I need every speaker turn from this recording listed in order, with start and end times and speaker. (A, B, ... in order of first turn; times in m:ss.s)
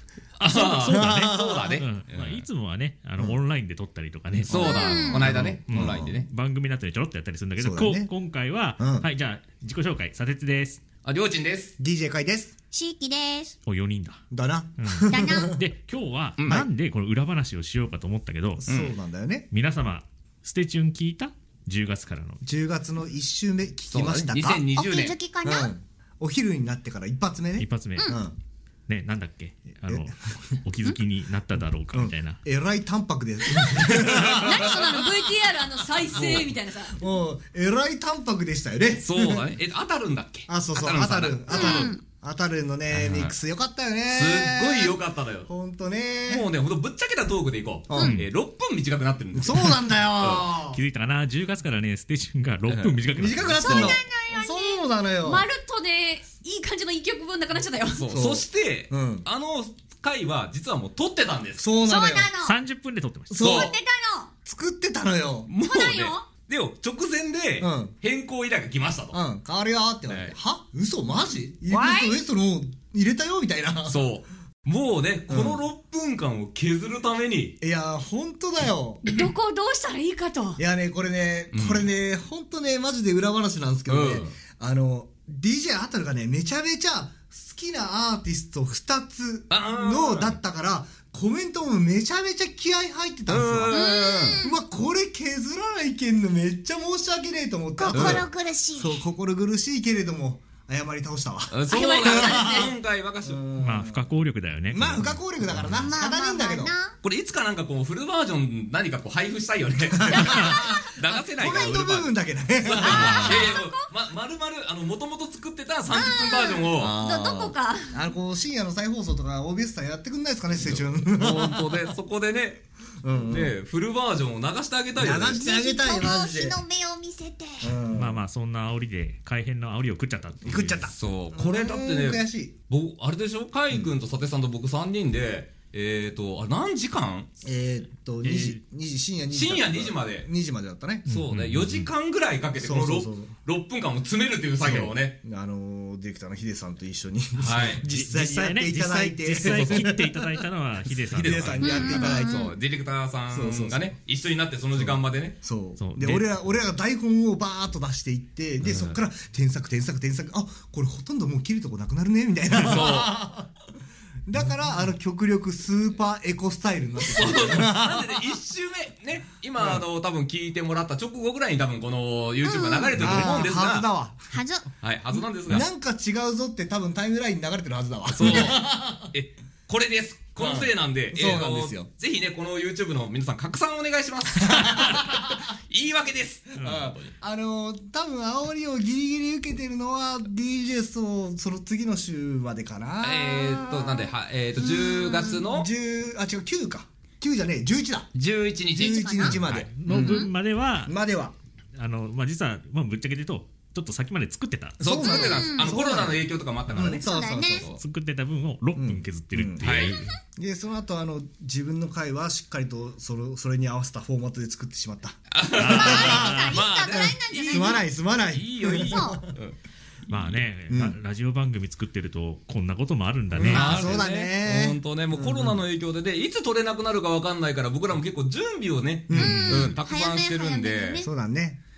0:00.4-0:10.8 A
0:00.4-0:02.5 B
0:00.8-0:01.8 C
0:04.5-0:06.3 B
0:04.6-0:05.3 D
0:05.2-0:06.2 C
0:07.6-0:08.1 C
0:08.8-0:09.1 C
0:11.0-0:11.7 B
0:11.8-0:12.6 C
0:12.7-0:13.5 D
0:13.7-0:14.2 A
0:14.3-0:15.6 C
0:14.8-0:18.6 A
0:15.1-0:15.6 D
0:16.4-0:16.7 B
0:18.6-0:19.5 C
0:18.7-0:19.0 B
0:19.5-0:22.4 A
0:22.4-0:24.7 C
0:23.9-0:25.2 B
0:24.8-0:25.7 D
0:25.4-0:28.4 C
0:27.6-0:28.1 A
0:28.9-0:32.4 A
0:29.8-0:30.6 C
0:31.9-0:35.2 C
0:34.1-0:34.4 B
0:34.4-0:37.0 E
0:36.1-0:36.5 B
0:36.9-0:39.4 C
0:39.0-0:41.9 B
0:40.5-0:45.0 C
0:41.5-0:42.0 D
0:42.9-0:43.4 A
0:44.1-0:45.5 B
0:45.5-0:46.5 C
0:46.3-0:50.5 B
0:47.9-0:48.2 C
0:47.9-0:48.2 D
0:48.0-0:48.3 A
0:49.3-0:50.8 C
0:50.7-0:53.6 A
0:52.7-0:53.0 B
0:53.1-0:55.5 C
0:53.6-0:54.7 D
0:53.6-0:54.0 B
0:54.4-0:58.1 E
0:57.9-1:01.7 B
0:58.1-0:59.3 C
1:01.6-1:02.3 C
1:01.8-1:02.6 D
1:02.4-1:03.4 A
1:03.3-1:03.8 C
1:03.4-1:03.7 B
1:03.5-1:04.3 D
1:04.5-1:05.5 C
1:05.5-1:09.2 B
1:05.6-1:06.2 E
1:07.6-1:08.0 C
1:09.1-1:14.1 C
1:10.1-1:10.4 B
1:11.7-1:12.2 E
1:13.8-1:17.6 B
1:15.3-1:15.6 C
1:17.6-1:19.0 C
1:19.0-1:20.6 E
1:20.6-1:42.7 C
1:21.5-1:21.9 B
1:23.9-1:24.3 B
1:29.5-1:30.4 B
1:33.3-1:34.4 B
1:33.7-1:34.6 D
1:37.8-1:39.0 D
1:37.9-1:38.2 B
1:41.5-1:43.4 B
1:41.7-1:42.7 E
1:43.2-1:44.1 C
1:43.6-1:45.7 A
1:44.7-1:46.7 C
1:45.8-1:47.0 D
1:47.0-1:57.0 B
1:49.9-1:53.6 C
1:50.2-1:50.5 A
1:50.3-1:50.8 D
1:52.9-1:53.8 E
1:55.9-1:56.7 D
1:56.8-2:01.9 C
1:57.0-1:58.0 E
2:00.5-2:02.6 B
2:03.0-2:03.6 C
2:03.2-2:05.4 B
2:05.0-2:06.6 C
2:05.3-2:07.8 D
2:07.6-2:08.2 C
2:07.9-2:10.9 A
2:10.4-2:12.5 C
2:10.5-2:17.3 B
2:17.4-2:21.1 C
2:18.2-2:18.6 A
2:19.3-2:20.3 B
2:21.1-2:21.9 A
2:21.1-2:25.2 B
2:22.6-2:23.3 C
2:24.6-2:30.4 C
2:27.4-2:27.8 B
2:27.7-2:32.0 A
2:29.4-2:29.8 B
2:31.1-2:35.4 B
2:31.1-2:32.5 C
2:31.6-2:32.5 D
2:33.3-2:33.9 C
2:34.8-2:43.5 C
2:35.8-2:36.3 A
2:38.6-2:39.0 A
2:42.6-2:43.1 B
2:44.3-2:48.3 C
2:44.4-2:44.8 A
2:47.0-2:53.9 B
2:49.6-2:49.8 C
2:52.4-2:53.2 D
2:53.0-2:54.3 C
2:53.0-2:53.5 A
2:54.3-2:54.7 D
2:54.8-2:55.7 B
2:55.4-2:59.1 C
2:58.1-3:07.1 B
3:00.4-3:01.9 C
3:04.4-3:05.3 C
3:06.6-3:14.1 C
3:06.6-3:06.9 A
3:13.0-3:15.7 B
3:14.6-3:15.4 D
3:15.4-3:18.1 C
3:18.1-3:19.0 B
3:18.8-3:20.3 C
3:18.8-3:19.4 D
3:19.2-3:20.9 A
3:20.0-3:20.3 D
3:20.8-3:21.4 C
3:21.8-3:24.8 A
3:24.8-3:27.1 B
3:24.8-3:27.7 C
3:24.9-3:25.8 D
3:27.0-3:27.7 D
3:27.7-3:30.2 A
3:28.8-3:39.3 C
3:29.6-3:30.0 B
3:35.3-3:39.6 B
3:35.6-3:36.6 A
3:35.6-3:37.8 D
3:38.8-3:39.2 D
3:40.1-3:44.0 A
3:40.1-3:40.4 B
3:40.7-3:41.0 C
3:43.3-3:51.0 B
3:43.4-3:45.6 C
3:49.1-3:49.8 C
3:49.1-3:51.1 D
3:49.2-3:49.7 A
3:51.0-3:51.6 C